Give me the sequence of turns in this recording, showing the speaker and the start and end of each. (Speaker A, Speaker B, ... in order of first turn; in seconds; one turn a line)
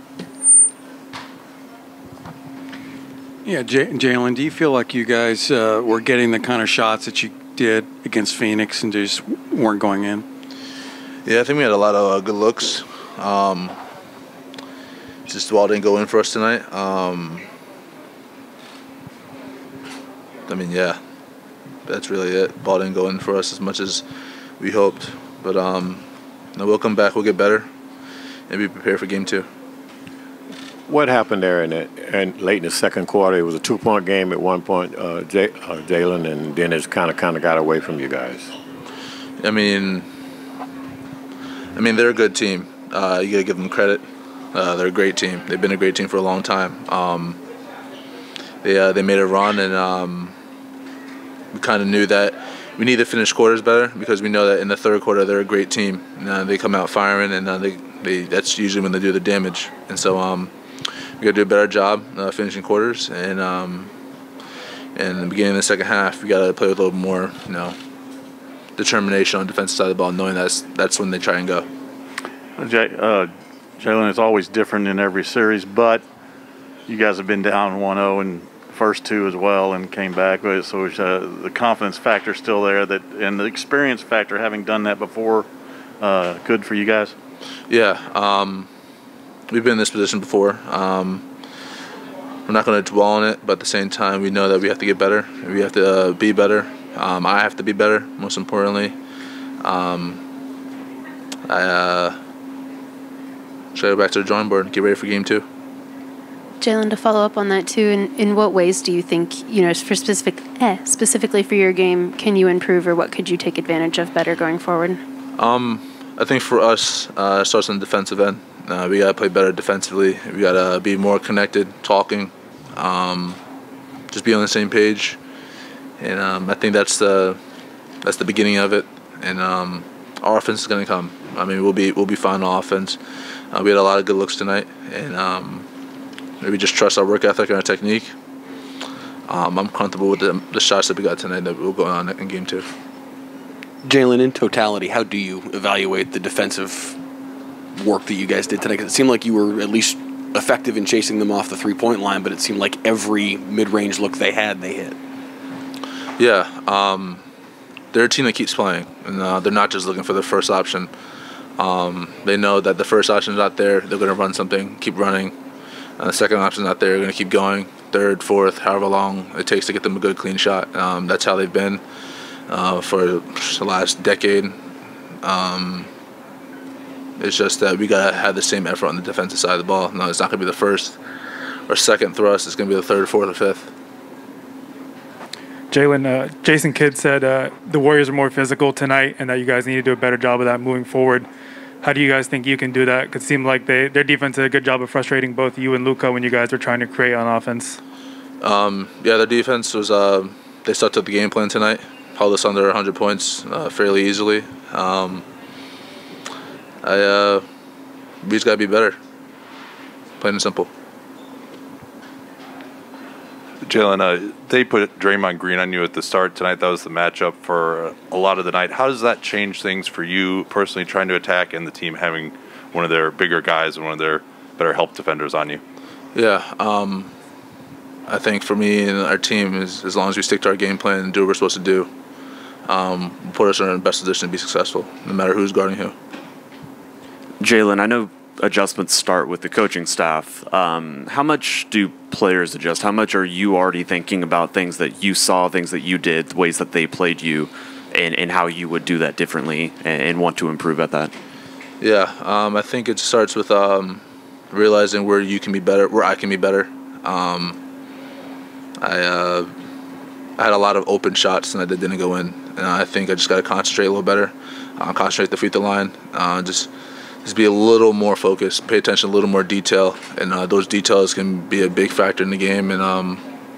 Speaker A: 3.4-10.2
Speaker B: 11.3-13.8
Speaker B: 15.3-17.5
Speaker B: 20.5-21.0
Speaker B: 21.9-24.1
Speaker B: 24.6-26.1
Speaker B: 26.6-27.7
Speaker B: 28.5-29.5
Speaker C: 30.9-38.5
Speaker B: 39.4-40.1
Speaker B: 41.8-44.0
Speaker B: 44.5-47.4
Speaker B: 48.6-50.4
Speaker B: 51.5-60.5
Speaker B: 61.2-63.9
Speaker B: 65.0-67.8
Speaker B: 68.8-71.7
Speaker D: 72.6-76.0
Speaker D: 76.9-85.5
Speaker D: 86.0-87.1
Speaker B: 87.7-88.7
Speaker B: 89.5-91.2
Speaker B: 92.5-99.0
Speaker B: 99.6-100.2
Speaker B: 101.5-102.2
Speaker B: 103.8-105.5
Speaker E: 106.6-115.0
Speaker B: 115.4-123.4
Speaker B: 124.1-125.2
Speaker B: 126.0-127.4
Speaker B: 128.0-133.0
Speaker B: 133.5-135.7
Speaker B: 136.4-138.1
Speaker B: 139.3-142.7
Speaker F: 143.8-147.0
Speaker F: 147.7-155.0
Speaker B: 156.2-157.2
Speaker B: 157.9-160.9
Speaker B: 161.6-165.3
Speaker B: 166.0-171.8
Speaker B: 172.5-174.6
Speaker B: 175.2-175.9
Speaker B: 177.2-181.0
Speaker B: 181.7-183.7
Speaker G: 185.7-191.3
Speaker G: 191.8-197.8
Speaker B: 198.4-205.3
Speaker B: 206.8-207.4
Speaker B: 208.2-209.0
Speaker B: 210.2-210.7
Speaker H: 213.7-225.6
Speaker B: 226.2-227.1
Speaker B: 228.1-231.9
Speaker B: 232.7-235.9
Speaker I: 237.4-251.1
Speaker B: 251.8-257.6
Speaker B: 258.8-259.5
Speaker B: 260.4-266.7
Speaker B: 267.2-273.2